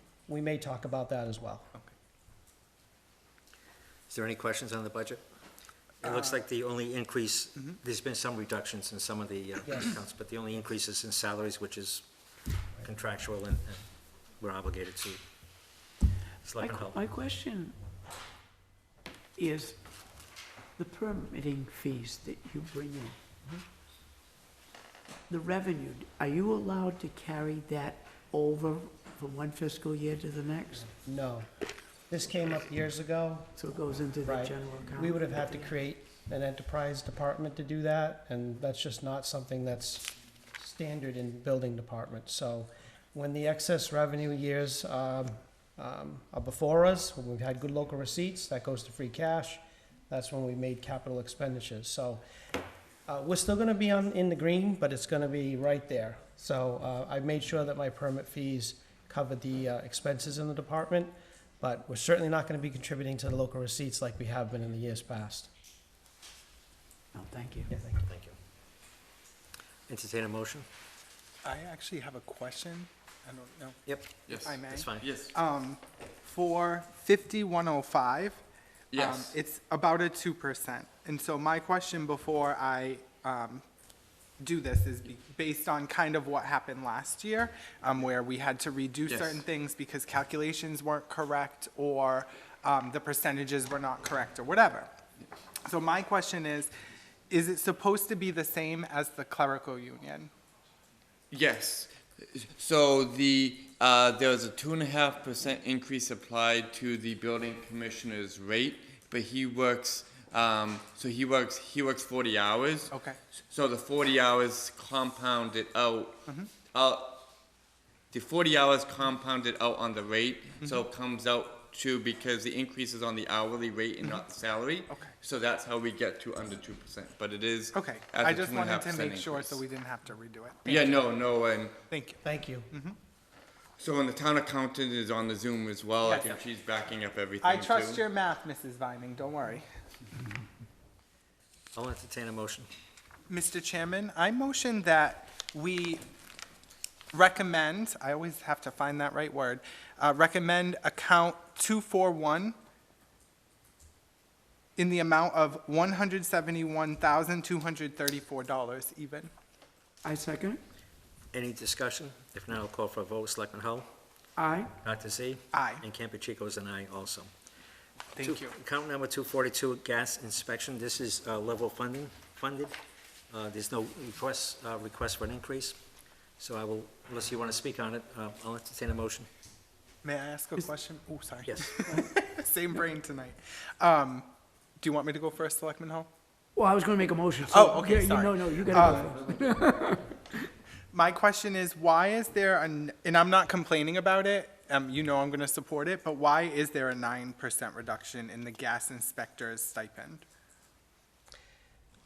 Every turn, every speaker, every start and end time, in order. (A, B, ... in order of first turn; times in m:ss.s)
0:00.3-0:01.7 A
0:04.1-0:05.2 B
0:06.0-0:12.0 B
0:09.7-0:10.0 A
0:12.8-0:13.8 B
0:14.4-0:15.2 B
0:16.4-0:17.0 B
0:16.6-0:17.8 C
0:19.4-0:19.8 C
0:20.8-0:23.2 C
0:25.3-0:30.9 C
0:30.8-0:31.5 A
0:32.1-0:33.5 A
0:33.6-0:35.8 C
0:34.2-0:52.2 A
0:53.1-1:05.5 A
1:07.1-1:07.7 C
1:07.7-1:08.1 A
1:08.1-1:08.4 B
1:09.9-1:10.7 B
1:11.4-1:13.8 D
1:13.9-1:14.1 B
1:14.3-1:15.3 E
1:14.4-1:18.4 D
1:14.7-1:15.1 B
1:18.9-1:19.3 E
1:18.9-1:23.6 D
1:24.4-1:34.9 D
1:29.1-1:29.4 E
1:35.7-1:36.7 D
1:37.3-1:40.3 D
1:41.3-1:52.9 E
1:52.9-1:53.2 D
1:53.5-1:56.2 E
1:56.7-1:57.2 E
1:58.1-2:09.6 E
2:07.7-2:11.1 D
2:10.6-2:11.8 E
2:11.9-2:13.0 D
2:12.2-2:12.7 A
2:13.8-2:18.0 E
2:16.0-2:16.4 D
2:17.4-2:19.7 D
2:21.8-2:22.7 B
2:23.3-2:26.0 D
2:27.1-2:32.6 D
2:34.8-2:39.3 D
2:40.0-2:40.6 C
2:41.3-2:43.9 B
2:44.4-2:44.8 C
2:44.8-2:47.3 B
2:45.5-2:45.8 D
2:48.2-2:48.6 D
2:48.2-2:52.8 B
2:53.3-2:55.8 B
2:56.4-2:59.3 B
3:00.0-3:04.3 D
3:04.8-3:06.1 D
3:06.6-3:10.2 C
3:07.4-3:09.2 D
3:10.9-3:20.2 D